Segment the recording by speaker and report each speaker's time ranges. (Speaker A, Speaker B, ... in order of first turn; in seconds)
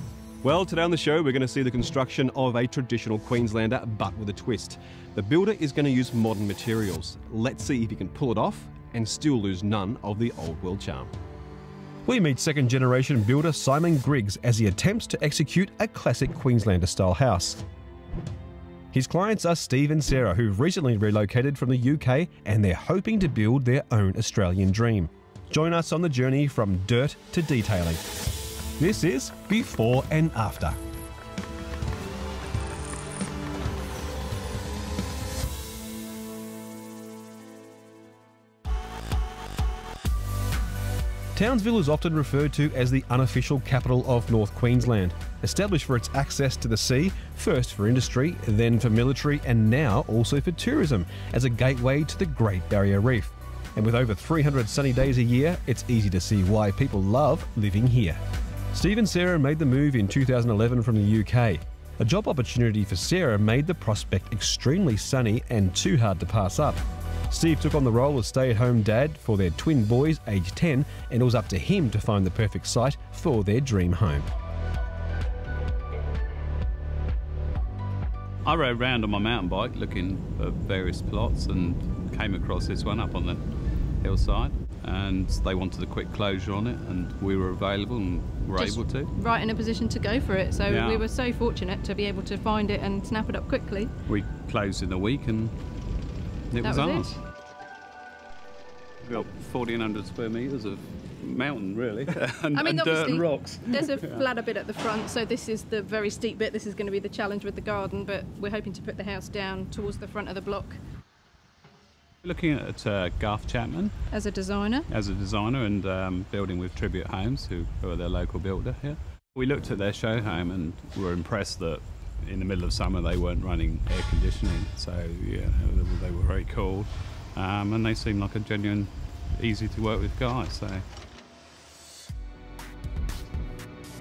Speaker A: 0.4-11.1, 12.1-17.6, 18.9-28.0, 28.8-30.8, 41.4-58.2, 58.7-74.3
Speaker B: 78.5-89.1, 90.7-91.1, 94.1-95.6, 96.5-97.2, 99.0-104.2, 112.2-114.1, 114.9-130.8
Speaker C: 88.6-93.9, 96.6-97.2, 102.5-110.8, 114.1-114.9